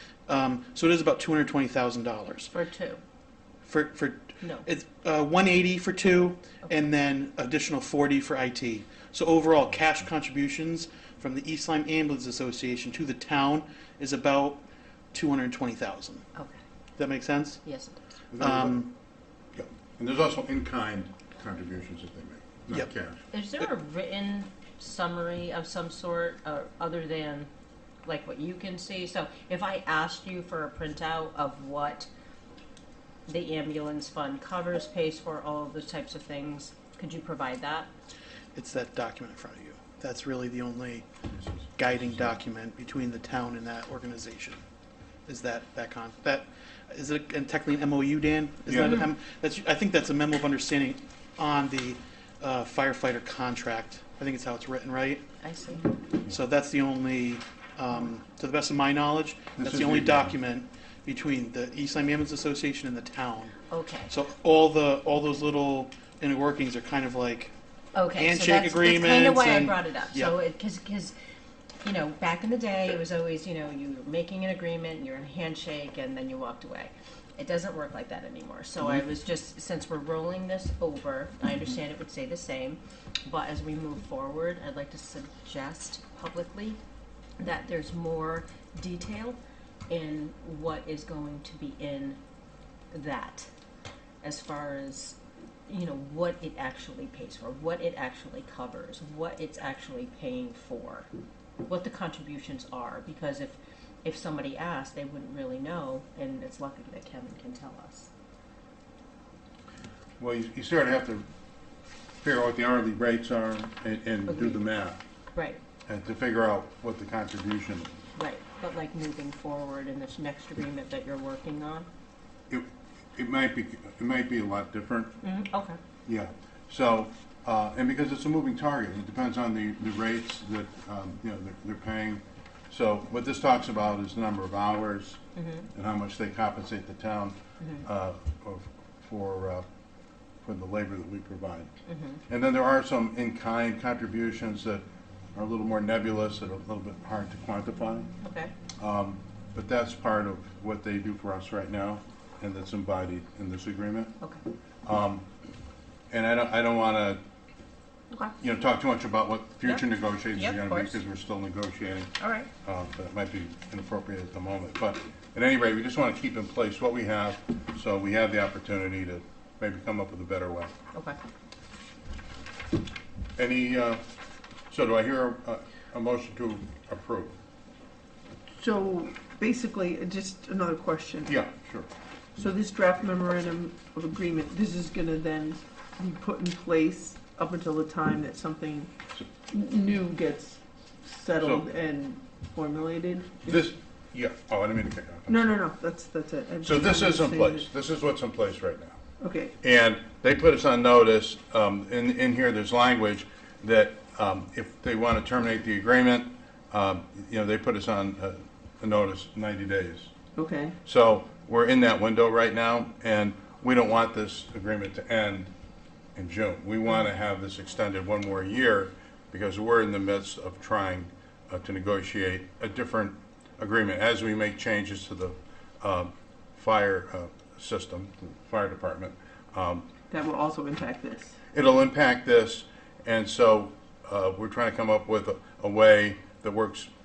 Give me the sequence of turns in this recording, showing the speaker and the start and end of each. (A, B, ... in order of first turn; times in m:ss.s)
0:00.3-0:02.5 A
0:02.5-0:03.0 B
0:03.6-0:14.6 A
0:15.1-0:16.2 A
0:17.0-0:17.6 A
0:17.6-0:18.0 B
0:18.3-0:18.8 C
0:18.4-0:18.9 A
0:19.5-0:23.2 C
0:23.3-0:27.5 B
0:28.0-0:32.1 B
0:33.3-0:37.9 B
0:38.5-0:41.0 A
0:41.3-0:42.1 C
0:41.7-0:44.6 A
0:45.2-0:55.2 A
0:48.7-0:49.0 C
0:55.4-0:55.8 B
0:56.3-1:03.6 A
0:59.6-1:00.3 C
1:03.7-1:04.1 B
1:04.1-1:07.5 A
1:07.9-1:11.1 B
1:08.1-1:10.3 A
1:11.8-1:26.8 B
1:27.4-1:32.2 B
1:32.9-1:33.5 B
1:34.2-1:41.1 B
1:41.6-1:48.1 B
1:50.2-1:51.2 C
1:52.2-1:55.0 C
1:54.3-1:54.6 B
1:55.3-1:55.6 B
1:55.9-1:58.0 C
1:58.2-2:01.9 B
2:02.5-2:05.2 C
2:05.2-2:05.8 B
2:06.0-2:15.2 C
2:15.4-2:15.7 B
2:15.7-2:19.6 C
2:17.6-2:17.8 B
2:20.4-2:21.7 C
2:21.9-2:22.2 B
2:22.3-2:24.8 C
2:25.3-2:28.1 C
2:28.2-2:28.5 B
2:28.8-2:34.1 C
2:34.8-2:35.2 C
2:36.1-2:37.2 C
2:38.4-2:42.1 C
2:39.6-2:41.0 B
2:42.2-2:42.5 B
2:42.6-2:50.7 C
2:53.4-2:54.0 C
2:54.7-2:57.3 C
2:58.6-3:01.3 D
3:01.2-3:01.9 C
3:02.4-3:08.9 D
3:09.5-3:13.6 D
3:11.4-3:11.7 C
3:13.4-3:15.5 C
3:15.3-3:17.6 D
3:16.6-3:19.0 C
3:19.2-3:19.5 D
3:19.6-3:30.1 C
3:30.4-3:30.8 D
3:30.8-3:35.5 C
3:36.2-3:49.9 C
3:50.1-3:51.4 D
3:51.5-3:56.9 C